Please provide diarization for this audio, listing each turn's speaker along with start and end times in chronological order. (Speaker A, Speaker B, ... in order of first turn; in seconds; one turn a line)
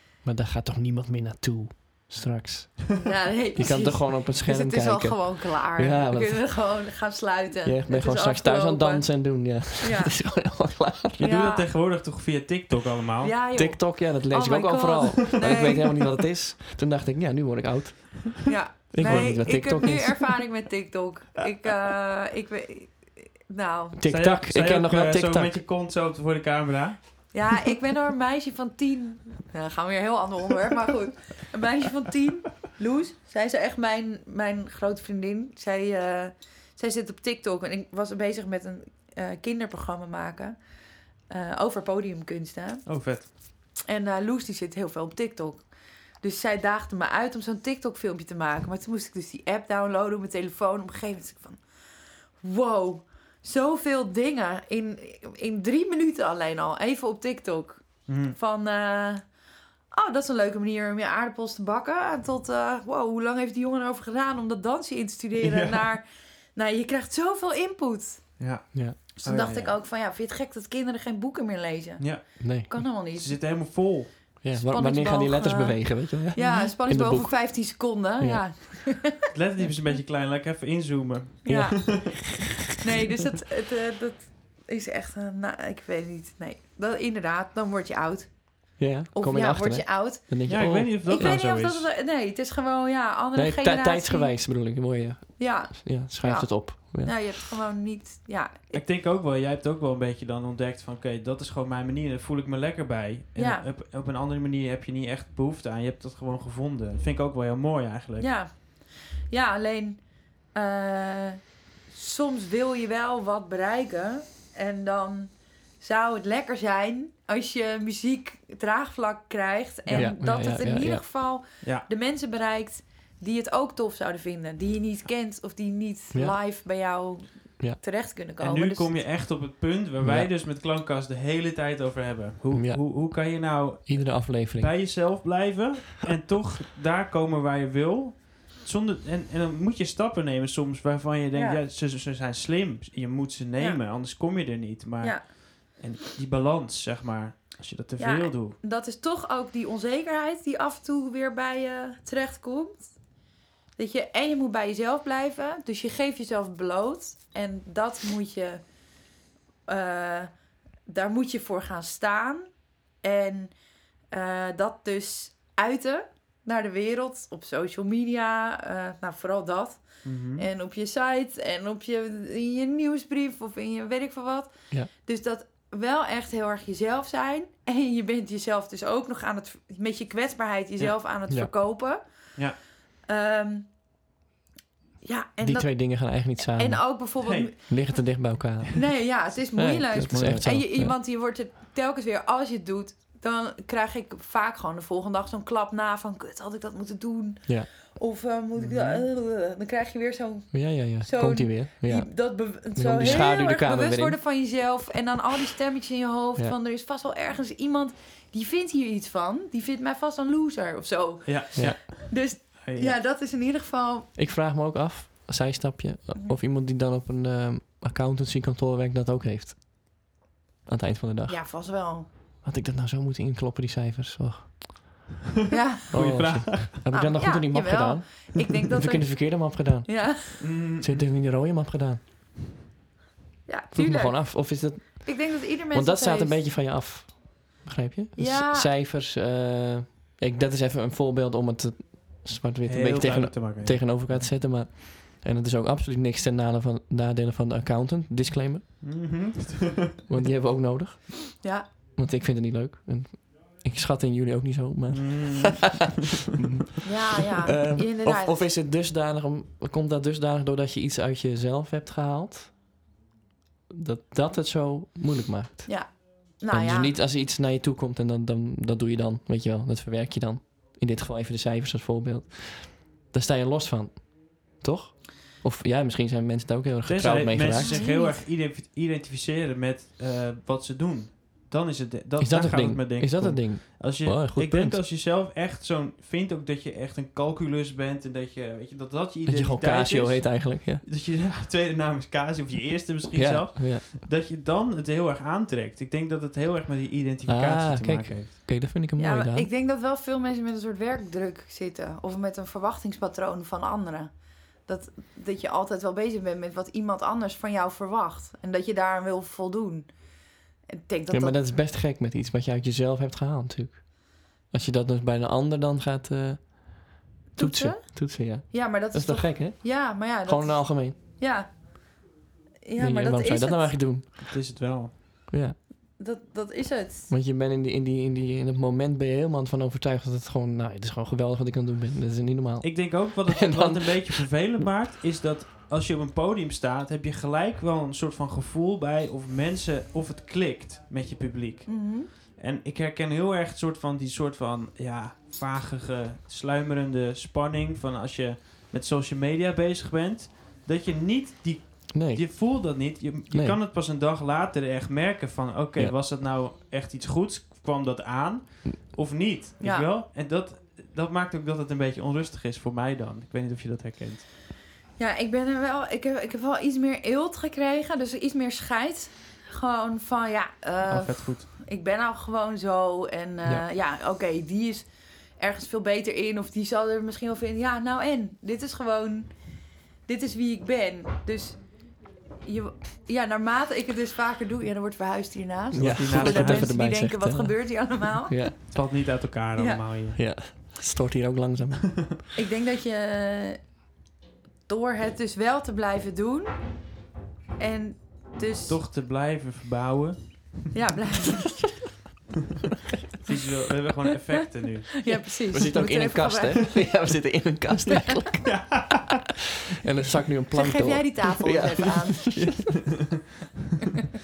Speaker A: 0.2-6.6
Speaker B: 3.0-10.5
Speaker A: 7.6-11.2
Speaker C: 11.1-13.3
Speaker B: 11.2-11.7
Speaker B: 13.2-16.0
Speaker A: 13.5-20.4
Speaker B: 18.4-24.0
Speaker C: 19.0-19.3
Speaker A: 23.9-25.6
Speaker C: 24.1-27.5
Speaker B: 27.3-73.4
Speaker C: 42.9-43.3
Speaker C: 58.1-58.4
Speaker C: 65.4-65.9
Speaker C: 68.4-69.7
Speaker A: 68.7-69.0
Speaker C: 72.0-74.7
Speaker A: 72.4-72.9
Speaker A: 74.4-79.0
Speaker B: 74.7-79.6
Speaker C: 79.3-82.0
Speaker B: 81.4-94.7
Speaker A: 81.5-82.2
Speaker A: 88.8-90.9
Speaker C: 90.5-91.9
Speaker A: 93.3-97.5
Speaker B: 95.4-98.8
Speaker C: 98.7-108.3
Speaker B: 103.3-103.7
Speaker B: 108.2-128.9
Speaker A: 119.9-121.1
Speaker C: 121.6-121.9
Speaker A: 126.1-126.5
Speaker C: 128.4-148.6
Speaker A: 130.0-130.3
Speaker A: 132.5-134.7
Speaker B: 141.3-141.6
Speaker B: 145.0-145.2
Speaker B: 148.0-153.2
Speaker B: 153.7-158.7
Speaker B: 159.7-163.6
Speaker B: 164.1-182.4
Speaker C: 170.0-170.4
Speaker B: 183.1-183.8
Speaker B: 185.0-187.9
Speaker A: 185.4-189.0
Speaker C: 187.2-188.1
Speaker B: 188.7-214.1
Speaker A: 189.5-190.9
Speaker C: 190.1-190.4
Speaker A: 197.5-197.7
Speaker C: 198.6-199.0
Speaker A: 200.5-204.2
Speaker C: 211.2-213.0
Speaker A: 214.2-220.1
Speaker A: 220.7-221.6
Speaker B: 221.3-222.1
Speaker A: 222.4-225.1
Speaker B: 225.5-230.5
Speaker C: 225.9-226.8
Speaker A: 225.9-232.0
Speaker C: 230.4-231.1
Speaker B: 233.4-236.4
Speaker A: 233.7-248.7
Speaker B: 238.2-238.7
Speaker C: 242.7-244.2
Speaker C: 248.8-249.9
Speaker A: 250.1-262.6
Speaker B: 251.4-251.7
Speaker C: 254.9-255.9
Speaker B: 256.8-258.4
Speaker A: 263.7-277.9
Speaker B: 265.6-266.9
Speaker C: 276.8-298.3
Speaker B: 277.6-278.2
Speaker A: 282.2-284.8
Speaker A: 289.2-290.8
Speaker A: 293.1-293.9
Speaker A: 297.3-299.5
Speaker B: 299.0-311.4
Speaker A: 311.1-320.9
Speaker B: 317.3-322.0
Speaker B: 322.6-323.8
Speaker A: 322.8-324.3
Speaker C: 324.1-324.9
Speaker A: 325.3-325.6
Speaker B: 326.0-327.1
Speaker A: 327.1-334.2
Speaker C: 332.6-364.3
Speaker B: 341.6-342.1
Speaker A: 351.9-352.6
Speaker A: 353.3-353.6
Speaker B: 359.6-359.9
Speaker B: 365.0-388.8
Speaker C: 370.9-371.5
Speaker C: 385.7-386.8
Speaker A: 385.7-388.6
Speaker C: 388.7-390.2
Speaker B: 389.6-389.8
Speaker A: 390.1-392.2
Speaker B: 392.3-393.8
Speaker B: 394.7-396.9
Speaker B: 397.6-398.8
Speaker C: 398.7-400.7
Speaker B: 400.7-401.8
Speaker C: 403.2-405.4
Speaker B: 405.0-407.0
Speaker A: 405.1-408.9
Speaker C: 408.2-409.2
Speaker A: 409.8-412.4
Speaker B: 410.5-412.6
Speaker C: 412.3-413.1